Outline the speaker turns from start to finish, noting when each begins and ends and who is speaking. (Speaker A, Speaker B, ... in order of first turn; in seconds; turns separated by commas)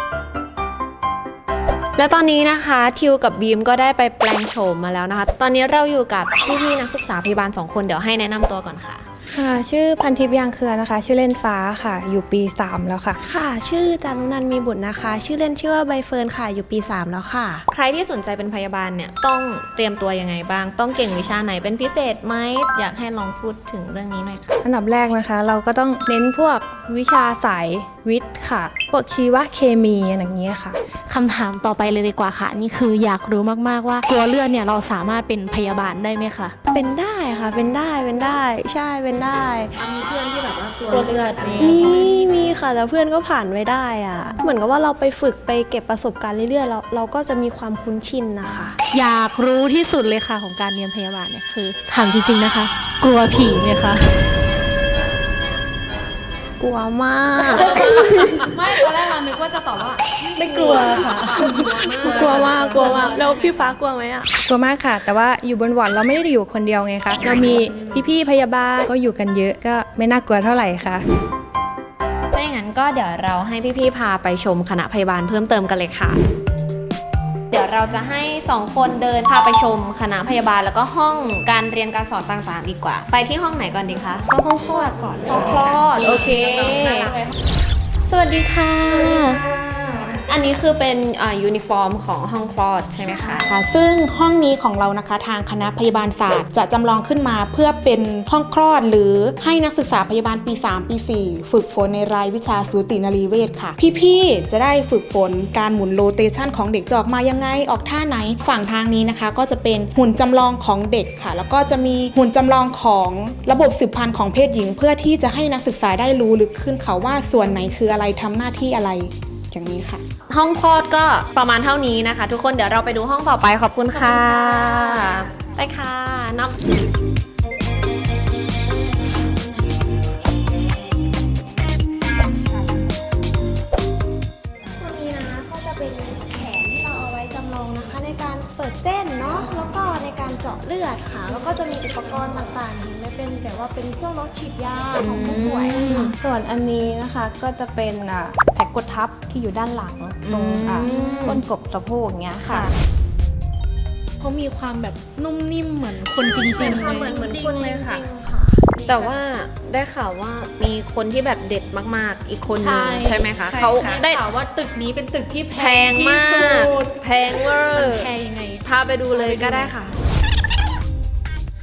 Speaker A: 2.0-9.0, Speaker B: 9.3-13.2, Speaker C: 13.2-17.6, Speaker A: 17.7-24.6, Speaker B: 24.6-30.8, Speaker D: 31.1-36.5, Speaker C: 36.7-39.7, Speaker A: 39.8-42.3, Speaker D: 40.9-42.0, Speaker C: 41.6-48.8, Speaker D: 48.9-54.1, Speaker C: 56.6-58.5, Speaker A: 57.5-63.8, Speaker D: 60.3-63.2, Speaker C: 61.6-64.3, Speaker B: 64.5-71.0, Speaker A: 67.2-68.1, Speaker A: 72.3-76.2, Speaker A: 77.5-84.3, Speaker C: 84.3-85.9, Speaker A: 85.3-87.2, Speaker D: 85.3-87.3, Speaker A: 88.0-93.5, Speaker E: 93.5-120.0, Speaker A: 120.3-126.6, Speaker C: 134.8-146.1, Speaker A: 145.0-146.2, Speaker B: 145.9-152.7, Speaker A: 150.2-151.4, Speaker D: 152.4-152.7, Speaker D: 154.2-157.2, Speaker C: 156.2-158.8, Speaker B: 156.6-158.1, Speaker D: 158.8-159.1, Speaker A: 158.9-164.2, Speaker D: 162.6-169.7, Speaker B: 163.5-164.0, Speaker A: 165.6-168.1, Speaker A: 168.7-170.0